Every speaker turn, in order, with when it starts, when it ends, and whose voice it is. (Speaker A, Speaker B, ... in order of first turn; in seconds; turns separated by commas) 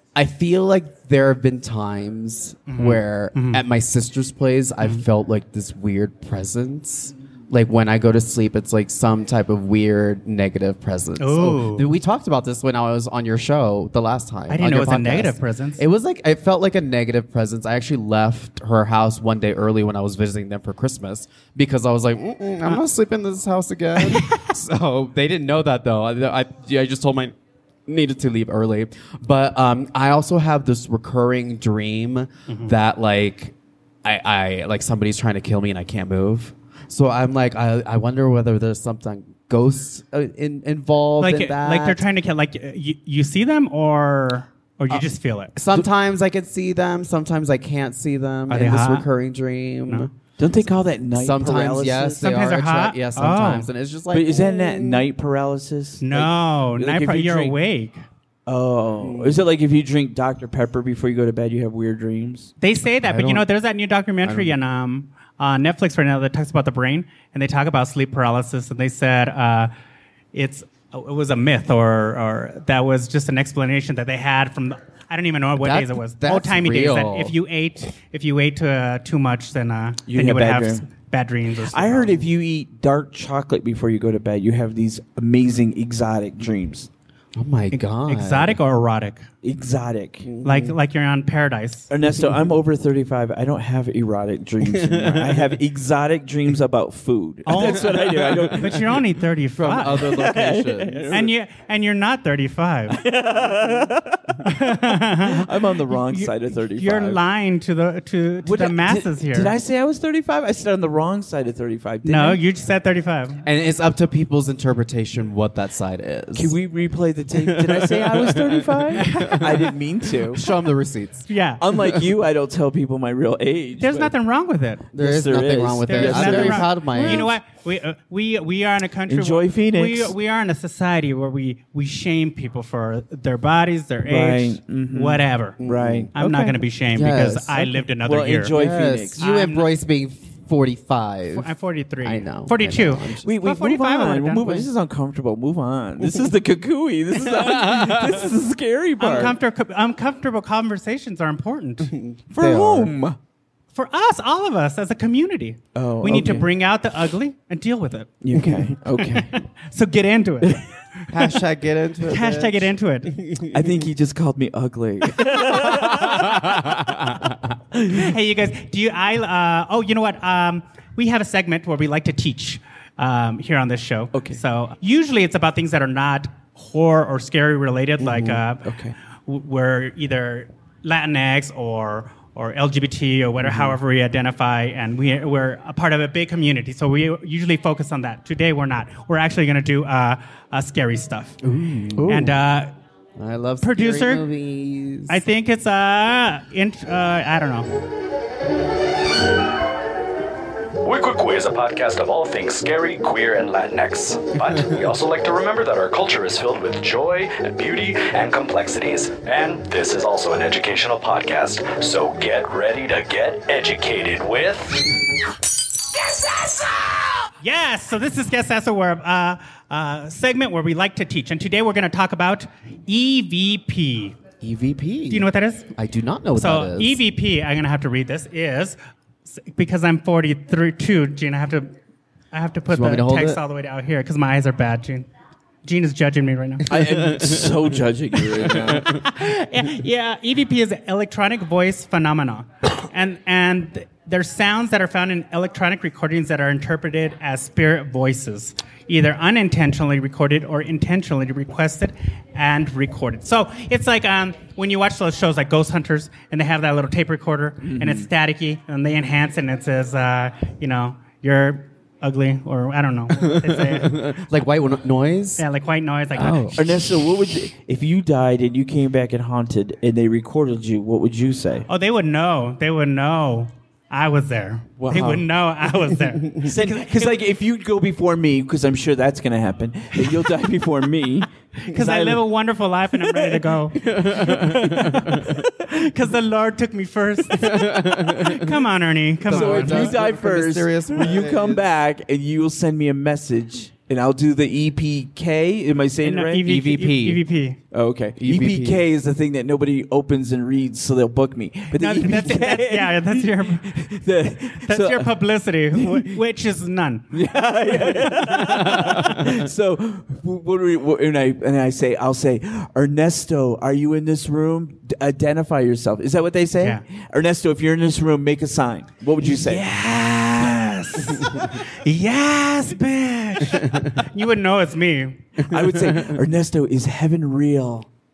Speaker A: 0.1-27.3, Speaker B: 2.7-3.6, Speaker B: 11.2-11.9, Speaker B: 14.5-15.8, Speaker B: 24.0-24.5, Speaker A: 27.9-42.0, Speaker B: 41.2-45.5, Speaker A: 44.9-50.1, Speaker B: 48.5-49.1, Speaker C: 50.4-52.3, Speaker A: 51.1-55.0, Speaker B: 52.2-53.7, Speaker C: 54.1-57.5, Speaker B: 56.0-58.0, Speaker C: 58.5-62.5, Speaker A: 59.0-59.4, Speaker B: 62.6-69.7, Speaker A: 63.0-63.5, Speaker A: 64.2-64.5, Speaker B: 70.3-82.2, Speaker A: 75.6-77.3, Speaker C: 80.1-80.9, Speaker C: 81.7-86.9, Speaker A: 87.3-88.6, Speaker B: 87.7-89.2, Speaker C: 89.4-90.3, Speaker A: 90.2-90.8, Speaker B: 90.4-91.9, Speaker C: 91.9-99.0, Speaker A: 94.6-95.6, Speaker B: 97.5-100.2, Speaker A: 97.5-98.8, Speaker A: 99.5-101.3, Speaker C: 99.9-101.3, Speaker B: 101.1-103.0, Speaker C: 102.9-107.2, Speaker A: 103.5-103.9, Speaker B: 104.4-109.5, Speaker C: 108.4-112.4, Speaker B: 112.0-113.4, Speaker A: 113.4-116.5, Speaker C: 116.3-120.4, Speaker A: 117.3-119.7, Speaker B: 119.0-119.5, Speaker A: 120.3-121.3, Speaker B: 121.3-121.6, Speaker C: 121.6-124.1, Speaker B: 123.8-124.8, Speaker C: 124.9-127.3, Speaker A: 124.9-127.3, Speaker B: 125.9-135.6, Speaker C: 129.1-130.1, Speaker C: 134.1-136.6, Speaker A: 135.6-136.2, Speaker B: 136.1-138.5, Speaker A: 136.9-137.7, Speaker C: 138.0-139.2, Speaker A: 138.5-141.5, Speaker B: 139.2-139.7, Speaker B: 141.3-144.6, Speaker A: 142.0-143.3, Speaker C: 143.2-149.4, Speaker A: 146.0-146.3, Speaker A: 147.2-148.3, Speaker B: 149.0-151.9, Speaker A: 151.9-152.9, Speaker C: 152.3-153.2, Speaker B: 153.7-158.1, Speaker C: 155.7-156.5, Speaker C: 158.2-159.4, Speaker B: 158.9-160.7, Speaker A: 161.1-163.7, Speaker B: 162.1-163.2, Speaker C: 163.5-166.8, Speaker A: 165.6-167.3, Speaker C: 167.7-168.1, Speaker B: 167.9-178.7, Speaker C: 174.1-174.4, Speaker C: 178.0-178.9, Speaker B: 179.2-191.4, Speaker C: 183.4-183.7, Speaker A: 191.4-192.3, Speaker C: 192.0-192.3, Speaker B: 192.1-192.7, Speaker A: 193.2-195.2, Speaker B: 193.6-194.2, Speaker B: 195.1-197.7, Speaker D: 200.8-214.9, Speaker D: 216.0-217.0, Speaker B: 217.4-224.2, Speaker A: 224.4-227.0, Speaker B: 225.1-225.7, Speaker B: 226.3-231.7, Speaker B: 232.3-235.1, Speaker A: 232.7-233.4, Speaker B: 235.6-236.7, Speaker C: 236.7-239.0, Speaker A: 236.7-237.6, Speaker B: 238.8-264.0, Speaker C: 257.6-258.1, Speaker A: 263.1-265.4, Speaker B: 265.4-266.6, Speaker A: 266.1-266.8, Speaker C: 266.5-271.7, Speaker B: 271.7-277.2, Speaker C: 274.8-275.2, Speaker A: 274.9-275.2, Speaker C: 276.4-282.2, Speaker B: 281.6-289.9, Speaker C: 283.0-283.5, Speaker A: 283.8-285.4, Speaker C: 285.2-285.5, Speaker A: 287.3-288.6, Speaker A: 289.2-291.6, Speaker C: 289.3-296.5, Speaker B: 296.0-297.6, Speaker A: 296.4-297.2, Speaker C: 297.7-305.2, Speaker A: 298.2-298.8, Speaker B: 301.7-303.8, Speaker B: 304.6-307.1, Speaker C: 305.7-306.2, Speaker C: 307.1-320.7, Speaker A: 308.5-309.2, Speaker B: 319.2-325.3, Speaker A: 323.5-323.9, Speaker C: 325.4-327.9, Speaker A: 325.6-326.2